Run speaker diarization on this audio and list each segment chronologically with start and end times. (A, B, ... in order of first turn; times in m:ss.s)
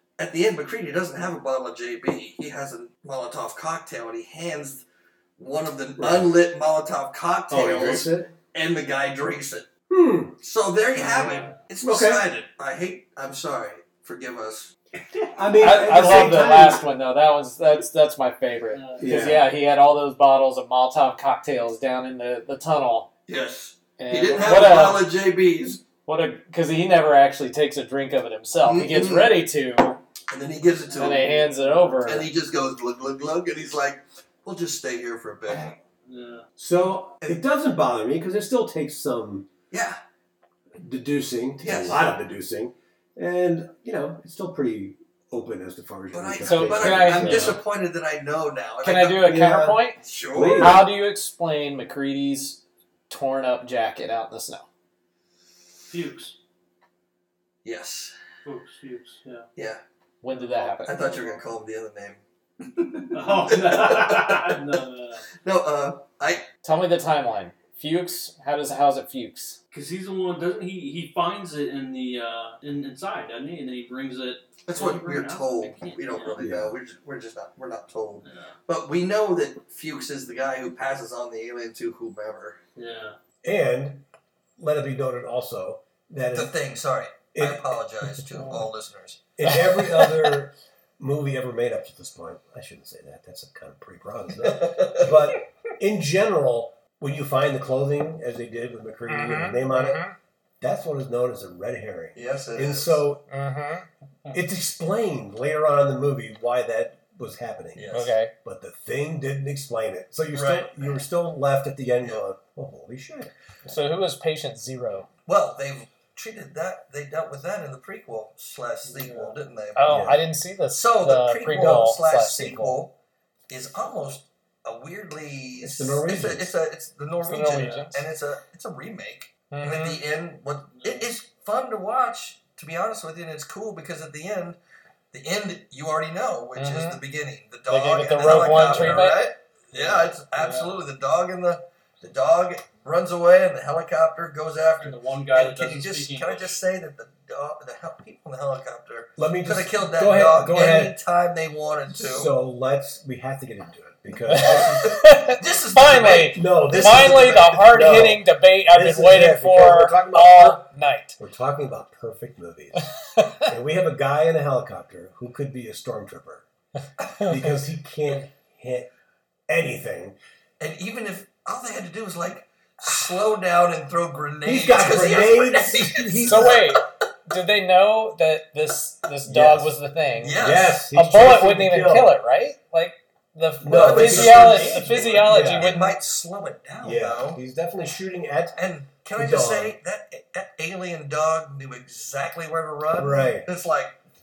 0:00.2-0:04.8 A
0:05.4-0:09.7 A
0:06.0-0:06.3 B
0:07.5-0:08.3 B
0:09.9-0:10.4 B
0:10.4-0:14.7 A
0:11.0-0:11.6 C
0:11.8-0:12.3 B
0:15.2-0:16.8 B
0:15.6-0:23.1 D
0:18.7-0:19.4 C
0:19.0-0:19.5 B
0:23.3-0:25.8 A
0:24.0-0:25.1 D
0:26.1-0:30.0 D
0:28.6-0:29.3 A
0:30.3-0:31.4 A
0:30.9-0:32.0 C
0:30.9-0:32.3 D
0:32.0-0:35.8 A
0:36.1-0:36.5 C
0:36.6-0:39.5 B
0:39.7-0:40.0 A
0:40.8-0:47.6 B
0:41.6-0:42.1 A
0:46.1-0:50.9 A
0:46.4-0:47.6 D
0:48.8-0:50.0 D
0:49.2-0:49.8 B
0:50.3-0:50.9 B
0:50.6-0:54.6 D
0:55.9-0:56.4 C
0:57.6-0:58.1 A
0:58.4-0:59.5 C
0:59.6-0:59.8 A
1:00.2-1:01.0 D
1:00.3-1:01.5 C
1:00.8-1:04.8 A
1:03.1-1:05.3 C
1:05.4-1:06.4 A
1:06.6-1:09.6 D
1:09.7-1:16.4 C
1:14.7-1:22.6 A
1:16.4-1:16.8 B
1:18.2-1:18.5 C
1:22.8-1:23.2 C
1:23.4-1:24.0 B
1:24.6-1:26.5 B
1:26.3-1:29.2 A
1:27.3-1:27.6 B
1:29.4-1:40.0 B
1:34.5-1:35.1 A
1:39.1-1:40.2 D
1:40.6-1:43.2 B
1:42.2-1:43.0 A
1:43.3-1:43.9 D
1:44.3-1:47.9 B
1:47.8-1:48.2 A
1:47.9-1:48.3 D
1:48.4-1:53.3 B
1:50.3-1:51.0 A
1:53.7-1:55.1 D
1:55.3-2:00.0 A
1:58.8-1:59.4 C
1:59.8-2:02.8 D
1:59.9-2:00.2 B
2:00.7-2:02.9 A
2:03.5-2:14.6 A
2:05.6-2:06.5 B
2:07.2-2:08.0 D
2:07.5-2:07.8 C
2:09.5-2:10.0 D
2:10.8-2:11.1 C
2:15.1-2:32.3 A
2:16.6-2:17.0 D
2:17.7-2:19.2 D
2:18.2-2:19.0 B
2:19.7-2:20.8 C
2:24.8-2:26.6 C
2:29.2-2:31.0 B
2:31.9-2:34.9 B
2:34.3-2:41.2 D
2:34.8-2:37.6 A
2:36.1-2:40.6 B
2:41.2-2:46.5 B
2:43.2-2:43.4 D
2:47.2-2:48.9 B
2:49.5-2:50.2 B
2:50.6-2:56.8 A
2:54.4-2:56.8 B
2:56.2-3:06.0 D
2:59.3-2:59.7 B
3:00.2-3:00.8 A
3:00.4-3:02.2 B
3:03.6-3:05.9 B
3:03.7-3:07.4 A
3:04.9-3:05.3 C
3:06.8-3:08.6 B
3:08.6-3:14.0 A
3:09.2-3:09.8 B
3:13.0-3:13.5 B